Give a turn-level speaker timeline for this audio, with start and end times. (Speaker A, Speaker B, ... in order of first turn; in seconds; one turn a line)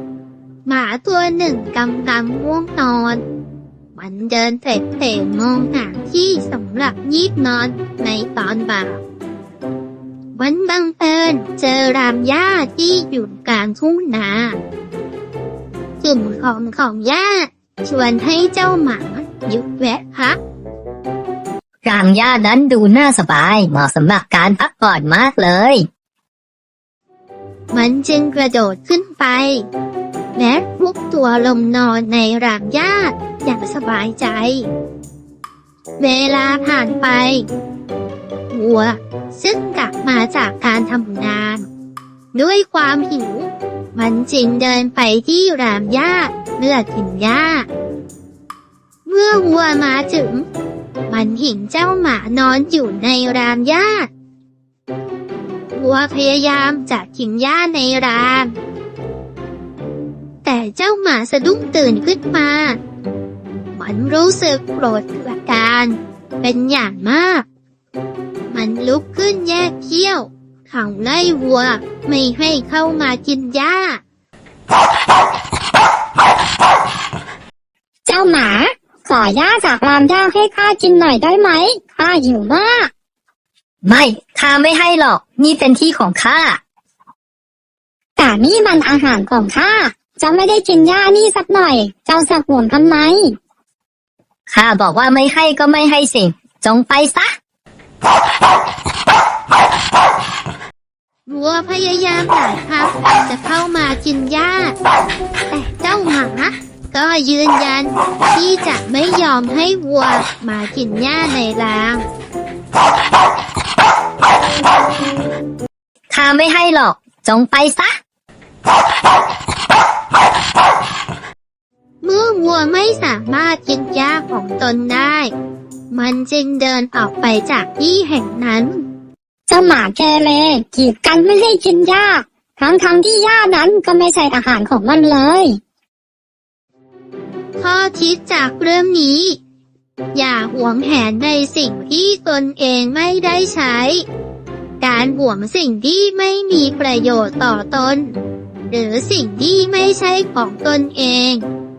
Speaker A: 0.7-3.2
Speaker A: 3.9-9.0
Speaker A: 10.3-14.6
Speaker A: 16.0-20.4
Speaker B: 21.8-25.8
Speaker A: 27.7-29.6
Speaker A: 30.4-34.6
Speaker A: 36.0-37.5
Speaker A: 38.5-41.7
Speaker A: 42.3-47.6
Speaker A: 49.0-50.5
Speaker A: 51.1-54.1
Speaker A: 55.7-58.5
Speaker A: 60.4-62.8
Speaker A: 63.7-67.4
Speaker A: 68.5-74.0
Speaker C: 78.0-82.9
Speaker B: 83.8-86.6
Speaker C: 88.2-93.3
Speaker B: 94.5-97.3
Speaker A: 101.3-104.8
Speaker A: 105.5-112.0
Speaker B: 116.1-117.9
Speaker A: 122.0-125.3
Speaker A: 125.9-128.8
Speaker C: 129.5-135.6
Speaker A: 137.6-139.4
Speaker A: 140.1-144.0
Speaker A: 144.8-148.1
Speaker A: 148.7-151.4